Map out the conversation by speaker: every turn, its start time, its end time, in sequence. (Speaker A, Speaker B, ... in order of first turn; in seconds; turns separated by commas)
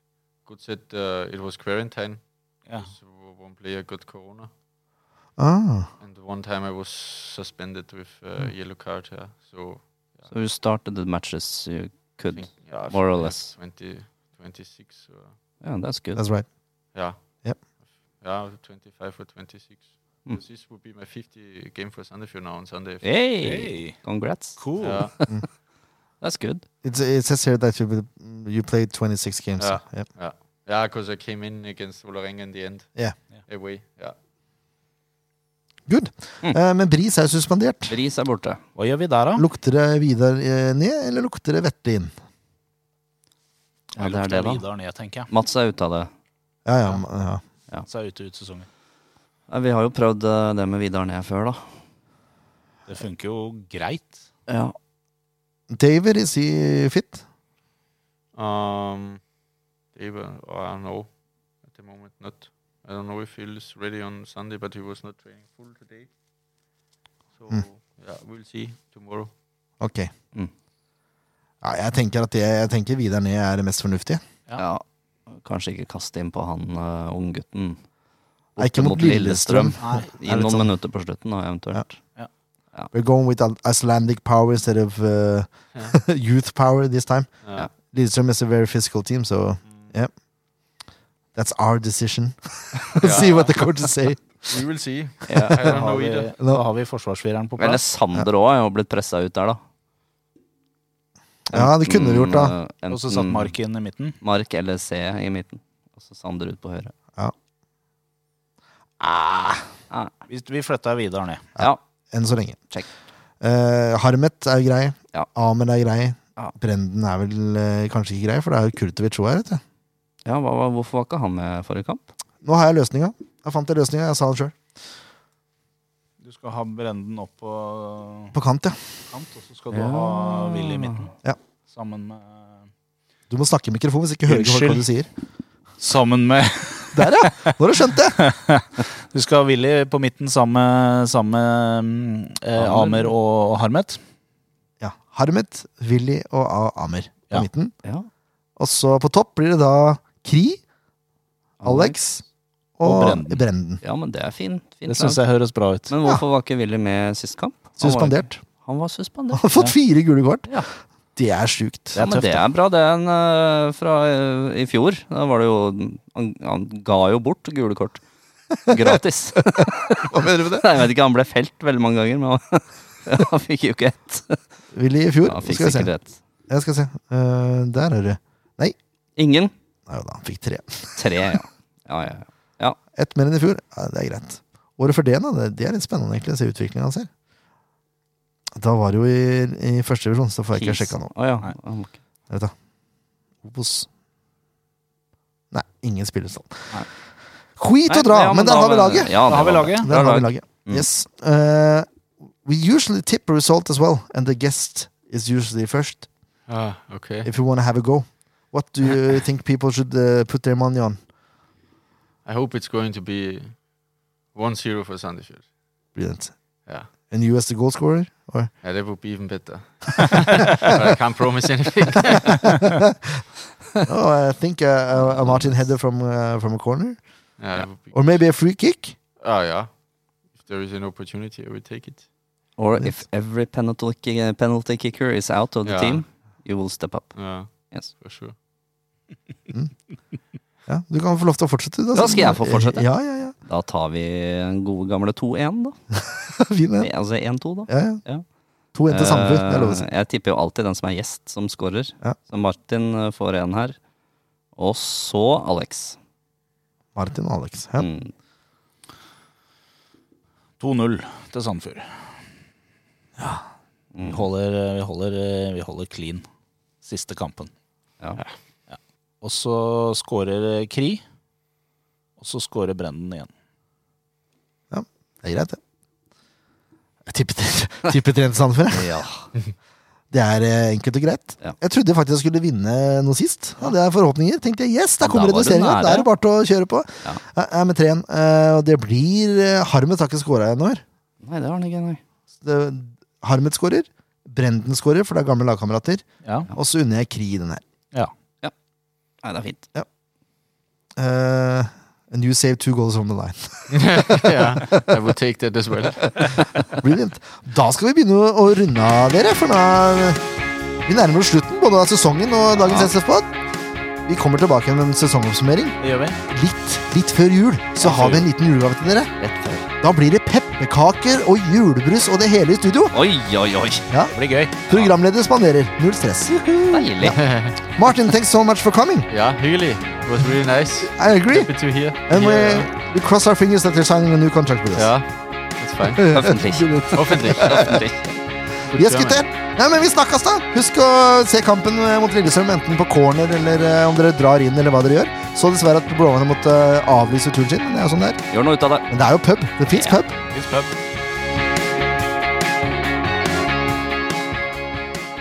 Speaker A: 0.5-4.5, Speaker B: 5.4-5.9, Speaker A: 6.0-10.3, Speaker C: 10.3-13.5, Speaker A: 12.3-15.4, Speaker C: 15.6-16.2, Speaker B: 16.2-16.6, Speaker A: 16.9-23.1, Speaker C: 23.0-25.5, Speaker D: 23.4-24.0, Speaker D: 24.6-25.1, Speaker A: 24.8-25.1, Speaker C: 26.2-26.6, Speaker B: 26.8-30.1, Speaker A: 29.6-34.1, Speaker B: 35.9-38.0, Speaker C: 37.9-38.6, Speaker D: 38.8-39.4, Speaker B: 39.4-42.1, Speaker C: 44.0-44.6, Speaker D: 44.0-45.3, Speaker C: 45.3-46.1, Speaker B: 46.6-47.4, Speaker D: 47.9-48.7, Speaker C: 49.5-51.8, Speaker D: 52.9-54.2, Speaker C: 54.5-54.8, Speaker B: 55.7-57.2, Speaker A: 58.3-59.2, Speaker A: 59.9-66.1, Speaker A: 67.3-69.3, Speaker B: 69.8-70.1, Speaker B: 71.6-74.2, Speaker C: 74.6-77.9, Speaker C: 78.5-82.2, Speaker B: 78.6-80.8, Speaker D: 79.8-80.1, Speaker B: 82.9-90.1, Speaker A: 87.4-87.7, Speaker A: 89.6-90.0, Speaker B: 91.3-94.6, Speaker A: 93.0-93.5, Speaker A: 94.4-96.3, Speaker D: 95.6-97.8, Speaker C: 97.6-99.6, Speaker B: 101.5-102.5, Speaker C: 101.5-103.5, Speaker D: 102.9-104.2, Speaker C: 104.2-106.9, Speaker B: 109.0-109.6, Speaker D: 110.3-111.5, Speaker B: 111.6-112.7, Speaker B: 113.4-119.6, Speaker C: 120.2-122.0, Speaker B: 122.4-124.6, Speaker D: 126.2-128.4, Speaker B: 128.3-128.8, Speaker D: 129.1-131.1, Speaker C: 129.7-131.1, Speaker D: 131.7-132.7, Speaker B: 133.3-135.1, Speaker D: 134.3-134.9, Speaker D: 135.8-144.0, Speaker B: 136.9-138.2, Speaker C: 142.6-143.1, Speaker B: 144.8-147.8, Speaker C: 147.8-148.1, Speaker B: 148.6-150.6, Speaker C: 151.6-152.0, Speaker B: 151.6-152.3, Speaker B: 152.8-153.8, Speaker D: 152.8-153.4, Speaker C: 153.8-155.2, Speaker D: 154.9-155.9, Speaker C: 155.9-159.4, Speaker B: 157.8-158.4, Speaker B: 159.3-162.0, Speaker D: 161.9-162.4, Speaker C: 162.0-168.0, Speaker C: 168.7-174.4, Speaker B: 168.7-170.7, Speaker B: 174.7-175.9, Speaker C: 175.3-176.2, Speaker B: 176.5-178.8, Speaker C: 179.2-179.5, Speaker B: 179.9-181.3, Speaker C: 181.0-182.8, Speaker B: 182.9-187.1, Speaker B: 188.6-191.1, Speaker C: 190.5-192.0, Speaker B: 193.4-193.9, Speaker B: 195.5-197.0, Speaker B: 197.6-201.9, Speaker C: 197.9-200.9, Speaker D: 199.3-199.9, Speaker B: 202.4-206.1, Speaker A: 206.5-207.3, Speaker B: 207.2-211.0, Speaker A: 212.2-213.8, Speaker A: 214.3-215.5, Speaker B: 215.9-216.4, Speaker B: 216.9-218.5, Speaker A: 218.6-222.5, Speaker B: 222.4-223.2, Speaker B: 223.8-227.0, Speaker C: 224.9-225.7, Speaker A: 227.4-228.3, Speaker B: 227.9-229.0, Speaker A: 229.2-232.1, Speaker C: 232.6-237.9, Speaker A: 235.7-236.0, Speaker A: 237.2-238.3, Speaker B: 240.7-243.3, Speaker C: 241.9-245.8, Speaker B: 246.3-246.9, Speaker C: 246.8-253.8, Speaker B: 247.7-248.1, Speaker B: 248.7-249.8, Speaker C: 254.6-256.0, Speaker B: 256.9-257.9, Speaker C: 257.8-258.1, Speaker D: 260.6-262.1, Speaker B: 263.2-263.4, Speaker C: 263.9-264.3, Speaker D: 264.0-266.2, Speaker D: 266.8-267.5, Speaker D: 268.7-271.0, Speaker D: 272.2-273.3, Speaker B: 274.7-275.6, Speaker B: 277.1-278.9, Speaker C: 278.7-279.3, Speaker B: 280.1-290.8, Speaker C: 285.0-286.1, Speaker C: 291.2-292.0, Speaker B: 292.4-297.6, Speaker D: 296.2-296.5, Speaker C: 299.2-299.7, Speaker B: 301.0-304.9, Speaker A: 303.7-306.3, Speaker B: 305.8-310.2, Speaker B: 310.9-313.3, Speaker C: 312.5-312.9, Speaker B: 314.1-319.1, Speaker D: 315.8-316.2, Speaker D: 317.8-318.2, Speaker C: 319.2-319.7, Speaker B: 319.8-323.0, Speaker C: 322.9-323.9, Speaker B: 323.9-324.1, Speaker D: 324.1-324.7, Speaker B: 324.7-329.1, Speaker C: 326.7-327.2, Speaker A: 327.1-327.5, Speaker A: 329.1-332.7, Speaker B: 330.9-334.9, Speaker A: 334.8-336.1, Speaker B: 335.8-337.8, Speaker C: 336.1-338.2, Speaker A: 336.9-337.9, Speaker A: 338.6-339.3, Speaker B: 338.7-348.2, Speaker C: 348.3-348.9, Speaker B: 348.9-350.1, Speaker C: 349.7-350.0, Speaker D: 350.3-350.8